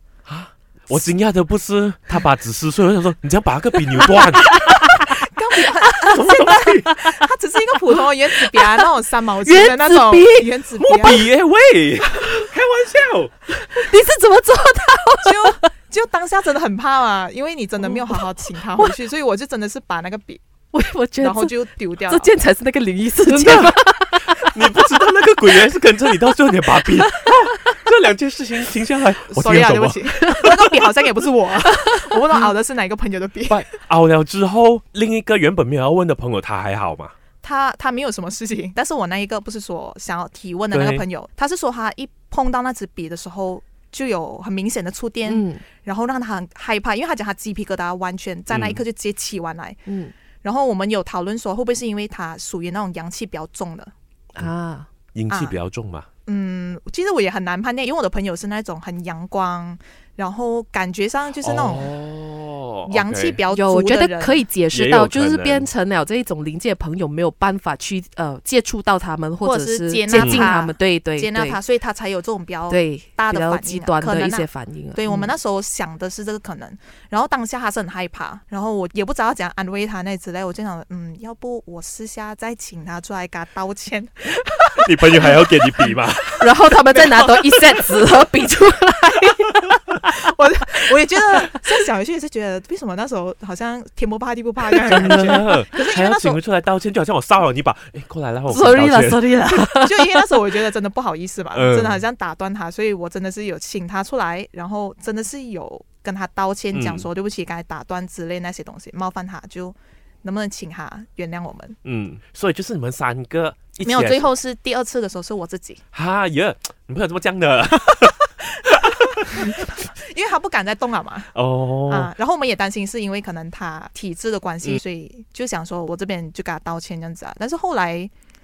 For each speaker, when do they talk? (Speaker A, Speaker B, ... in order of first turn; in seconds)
Speaker A: 0.2-4.7, 5.8-7.0, 10.8-13.3, 23.2-23.8, 24.4-30.6, 33.5-37.1, 40.7-41.0, 48.5-48.8, 55.1-56.1, 61.4-63.4, 64.7-65.7, 70.1-70.5, 84.8-86.5, 94.8-99.5, 101.5-102.0, 106.7-107.1, 111.8-114.3, 115.9-119.8, 121.2-122.1
Speaker B: 4.0-5.1, 5.9-7.1, 7.7-11.2, 13.5-15.6, 17.8-19.0, 20.7-24.5, 26.9-27.3, 30.3-30.7, 31.7-32.5, 45.2-45.6, 49.9-50.1, 54.3-54.9, 63.5-71.6, 72.7-75.3, 86.4-89.9, 90.6-91.5, 94.7-95.4, 98.5-100.6
Speaker C: 5.4-11.1, 15.3-20.4, 21.2-22.3, 29.3-33.4, 37.4-49.8, 50.4-53.9, 56.2-61.8, 62.9-64.4, 69.4-72.8, 73.3-74.4, 75.0-84.1, 91.5-96.4, 99.8-111.7, 113.8-115.8, 120.0-121.2, 121.9-128.1